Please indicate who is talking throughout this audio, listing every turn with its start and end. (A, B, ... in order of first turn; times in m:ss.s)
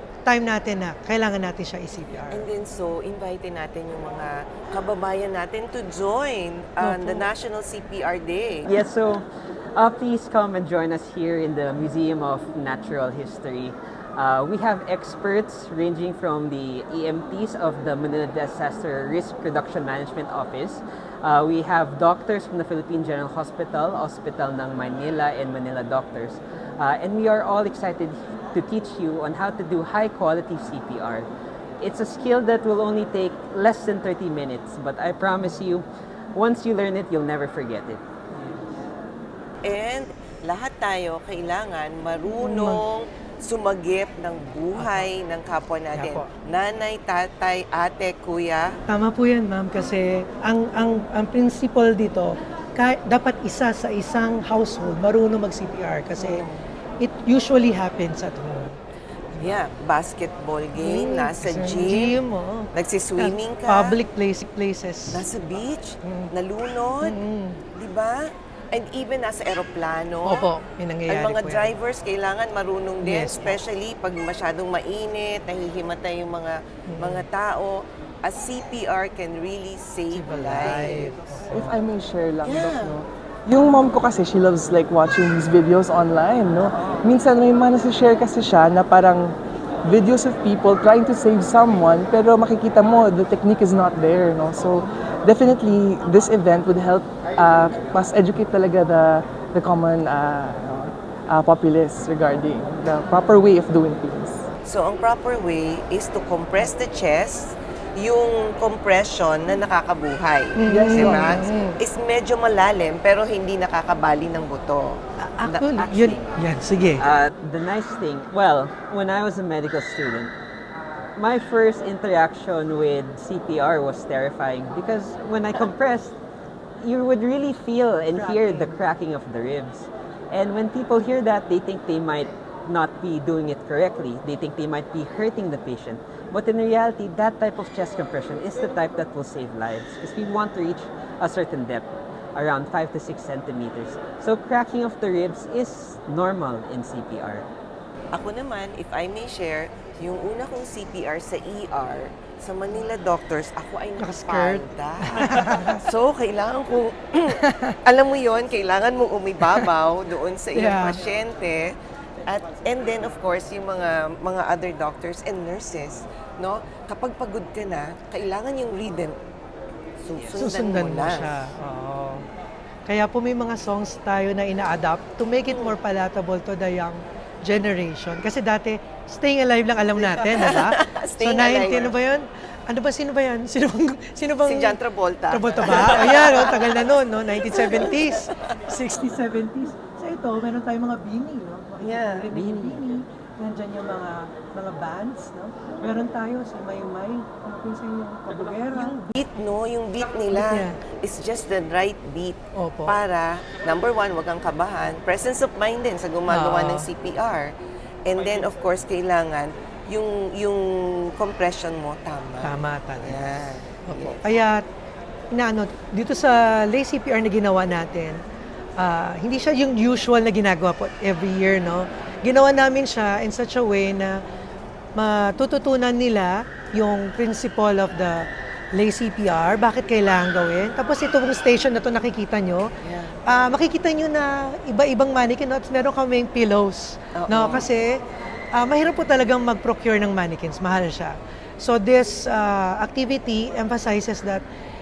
0:00.2-0:02.4 A
0:02.3-0:08.7 B
0:06.8-0:07.3 A
0:08.7-0:09.2 C
0:09.8-0:31.3 C
0:31.8-0:38.0 C
0:39.6-0:48.7 B
0:42.5-0:42.8 A
0:46.0-0:46.3 A
0:48.9-0:56.4 A
0:56.2-0:56.6 B
0:57.0-0:58.7 A
0:59.4-1:02.2 B
1:00.8-1:02.7 A
1:02.7-1:03.9 B
1:03.2-1:05.1 A
1:05.1-1:07.2 B
1:07.0-1:07.6 A
1:07.7-1:08.2 B
1:08.7-1:10.4 B
1:10.3-1:11.6 A
1:11.1-1:21.1 B
1:13.1-1:13.6 A
1:20.1-1:21.7 A
1:21.4-1:29.3 D
1:22.4-1:22.9 B
1:29.8-1:44.4 D
1:44.6-1:55.7 B
1:50.6-1:51.4 D
1:50.6-1:51.7 A
1:55.3-1:56.9 A
1:55.7-1:56.3 C
1:57.0-2:00.3 C
2:01.2-2:06.2 C
2:06.8-2:27.4 C
2:08.1-2:08.7 A
2:28.1-2:41.7 B
2:34.0-2:35.8 A
2:40.6-2:41.0 A
2:42.2-2:49.2 B
2:50.0-2:51.3 B
2:50.2-2:50.4 C
2:50.4-2:52.2 A
2:52.9-3:04.7 A
3:00.0-3:01.9 B
3:04.4-3:08.4 B
3:05.3-3:18.9 A
3:11.8-3:12.3 B
3:12.3-3:12.8 C
3:18.7-3:27.5 B
3:20.4-3:20.7 A
3:22.6-3:22.9 A
3:26.3-3:26.9 A
3:28.0-3:34.2 B
3:32.4-3:33.1 A
3:33.9-3:34.6 A
3:35.3-3:38.2 A
3:38.8-3:44.2 A
3:45.0-3:52.7 A
3:52.8-3:53.2 B
3:53.3-3:58.0 A
3:57.1-3:57.7 B
3:58.5-4:04.4 A